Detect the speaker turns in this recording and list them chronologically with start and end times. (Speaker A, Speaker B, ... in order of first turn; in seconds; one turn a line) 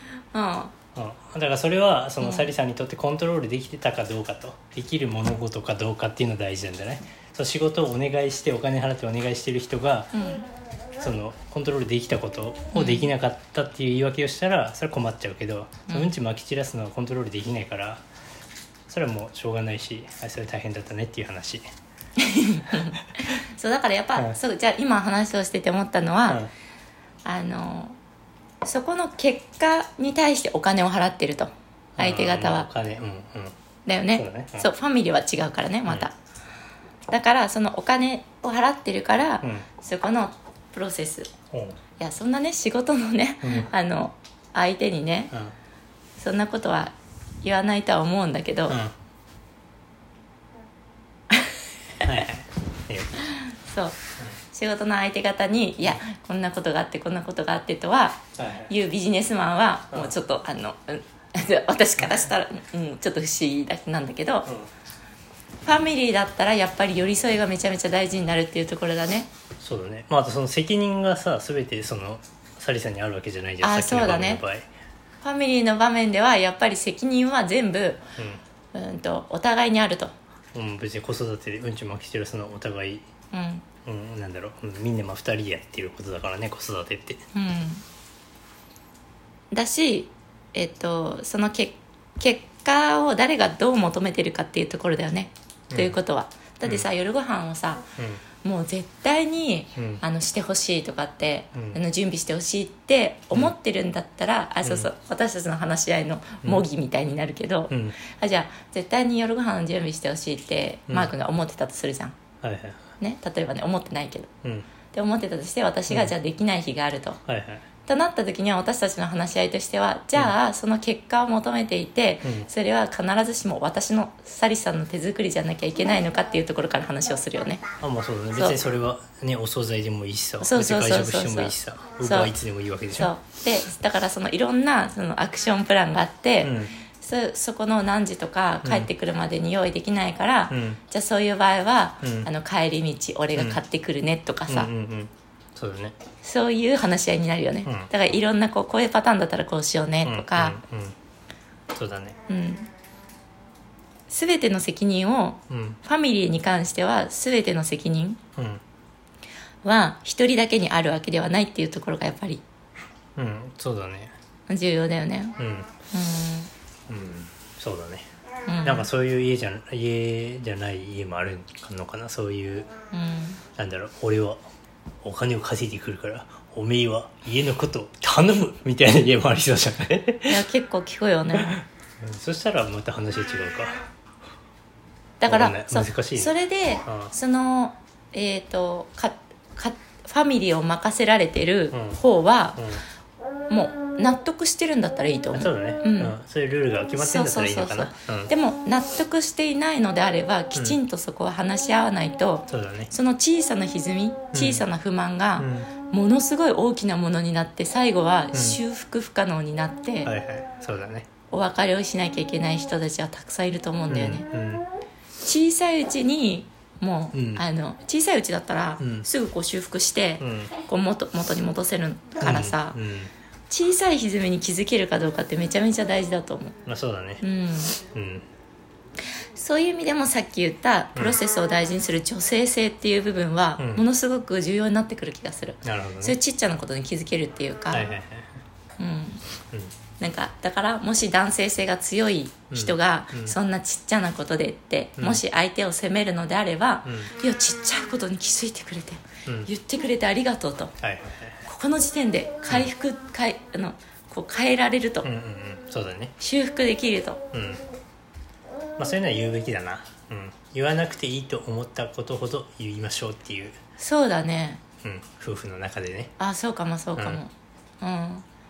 Speaker A: 0.3-0.7
Speaker B: 0.9-10.1
Speaker A: 2.2-2.5
Speaker A: 10.1-10.5
Speaker B: 11.0-18.0
Speaker A: 12.7-13.1
Speaker B: 18.9-21.6
Speaker A: 22.2-26.4
Speaker A: 27.2-28.0
Speaker A: 28.6-32.7
Speaker B: 32.0-33.5
Speaker A: 33.9-36.1
Speaker B: 34.1-34.7
Speaker A: 37.1-41.3
Speaker B: 41.5-41.8
Speaker A: 42.0-45.3
Speaker B: 43.4-43.7
Speaker A: 46.2-48.8
Speaker B: 48.7-48.9
Speaker B: 52.0-53.2
Speaker A: 53.3-54.0
Speaker A: 54.5-64.5
Speaker B: 58.4-58.7
Speaker B: 62.0-62.2
Speaker A: 65.6-69.3
Speaker B: 69.6-74.7
Speaker A: 73.6-74.4
Speaker A: 75.2-78.0
Speaker A: 78.7-80.1
Speaker B: 80.5-83.0
Speaker A: 83.3-83.6
Speaker B: 83.8-87.2
Speaker A: 87.3-87.8
Speaker A: 89.5-97.8
Speaker B: 95.7-96.0
Speaker A: 98.4-112.2
Speaker B: 99.8-100.0
Speaker B: 104.6-104.9
Speaker B: 107.7-108.0
Speaker B: 112.4-112.8
Speaker A: 113.0-114.3
Speaker A: 114.9-117.2
Speaker B: 115.9-116.1
Speaker B: 117.3-117.6
Speaker A: 117.8-127.6
Speaker B: 122.2-122.5
Speaker B: 127.8-133.1
Speaker A: 128.3-128.6
Speaker A: 130.4-132.3
Speaker A: 132.9-144.7
Speaker B: 136.4-136.7
Speaker B: 138.6-138.9
Speaker B: 140.5-140.8
Speaker B: 142.0-142.3
Speaker B: 143.3-143.6
Speaker B: 144.5-145.9
Speaker A: 146.2-150.6
Speaker B: 147.6-147.9
Speaker B: 150.0-150.9
Speaker B: 151.7-152.2
Speaker A: 152.3-152.7
Speaker A: 154.1-158.2
Speaker B: 155.5-155.8
Speaker B: 158.3-158.6
Speaker A: 159.6-162.4
Speaker B: 163.2-164.1
Speaker A: 164.5-165.4
Speaker B: 165.4-165.7
Speaker A: 165.9-166.5
Speaker B: 166.9-168.1
Speaker A: 168.5-168.9
Speaker B: 168.6-172.7
Speaker A: 172.9-173.4
Speaker B: 173.6-174.4
Speaker B: 175.0-180.4
Speaker A: 180.3-181.6
Speaker B: 181.4-183.8
Speaker A: 185.2-192.6
Speaker B: 185.2-186.3
Speaker B: 186.8-187.1
Speaker B: 191.7-192.0
Speaker B: 192.6-192.8
Speaker A: 193.5-196.1
Speaker B: 195.3-198.3
Speaker A: 197.0-210.1
Speaker B: 202.5-202.9
Speaker B: 204.3-204.6
Speaker B: 205.4-205.7
Speaker B: 208.3-208.6
Speaker B: 210.1-211.1
Speaker A: 211.3-214.2
Speaker B: 213.9-214.7
Speaker A: 215.2-222.8
Speaker B: 217.1-217.4
Speaker B: 218.8-219.1
Speaker B: 220.2-220.5
Speaker B: 222.2-223.1
Speaker A: 223.5-226.6
Speaker B: 226.6-227.2
Speaker A: 227.2-227.8
Speaker B: 227.8-228.2
Speaker A: 229.3-237.9
Speaker B: 233.6-233.8
Speaker B: 235.6-236.2
Speaker B: 237.7-238.3
Speaker A: 238.8-239.2
Speaker A: 240.0-250.7
Speaker B: 242.5-243.3
Speaker B: 245.0-245.2
Speaker B: 246.8-247.1
Speaker B: 250.8-251.4
Speaker A: 251.4-255.1
Speaker B: 255.0-256.1
Speaker A: 256.2-257.2
Speaker B: 257.3-257.6
Speaker B: 258.8-263.6
Speaker A: 263.8-264.6
Speaker B: 264.8-266.1
Speaker A: 266.2-268.2